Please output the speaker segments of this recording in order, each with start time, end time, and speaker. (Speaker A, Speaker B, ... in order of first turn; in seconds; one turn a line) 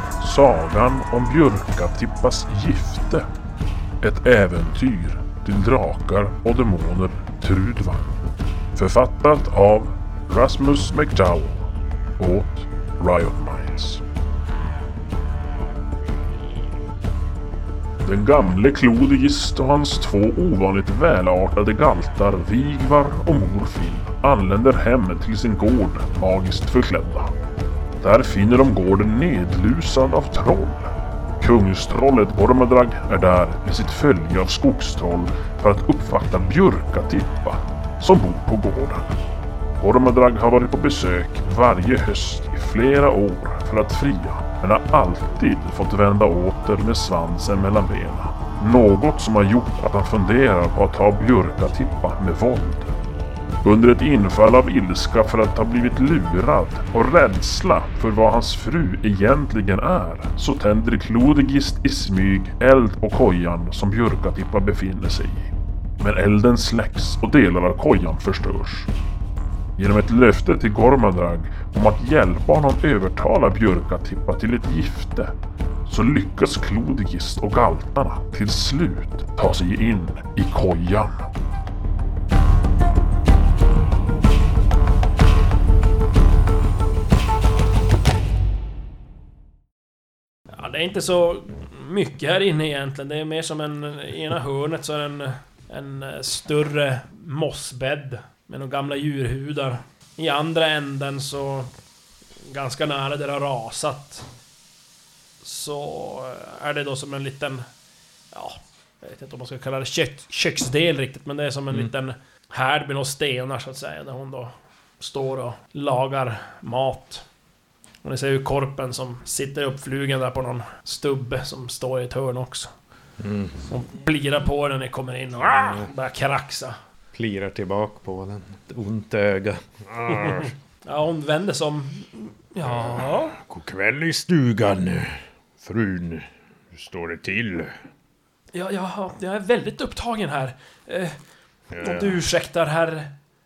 Speaker A: 0.2-3.3
Speaker A: 4.0-8.2
Speaker A: 8.8-14.0
Speaker A: 18.0-27.3
Speaker A: 28.0-39.2
Speaker A: 39.8-52.9
Speaker A: 53.6-68.9
Speaker A: 69.8-75.3
Speaker A: 75.9-81.3
Speaker B: 90.5-101.7
Speaker B: 102.4-104.3
Speaker B: 105.4-107.7
Speaker B: 108.3-117.2
Speaker B: 118.0-122.7
Speaker C: 123.2-123.6
Speaker B: 123.7-126.8
Speaker C: 125.4-125.9
Speaker C: 127.1-130.5
Speaker B: 130.3-133.4
Speaker C: 132.6-137.8
Speaker B: 138.5-141.2
Speaker C: 141.7-142.2
Speaker B: 141.8-143.1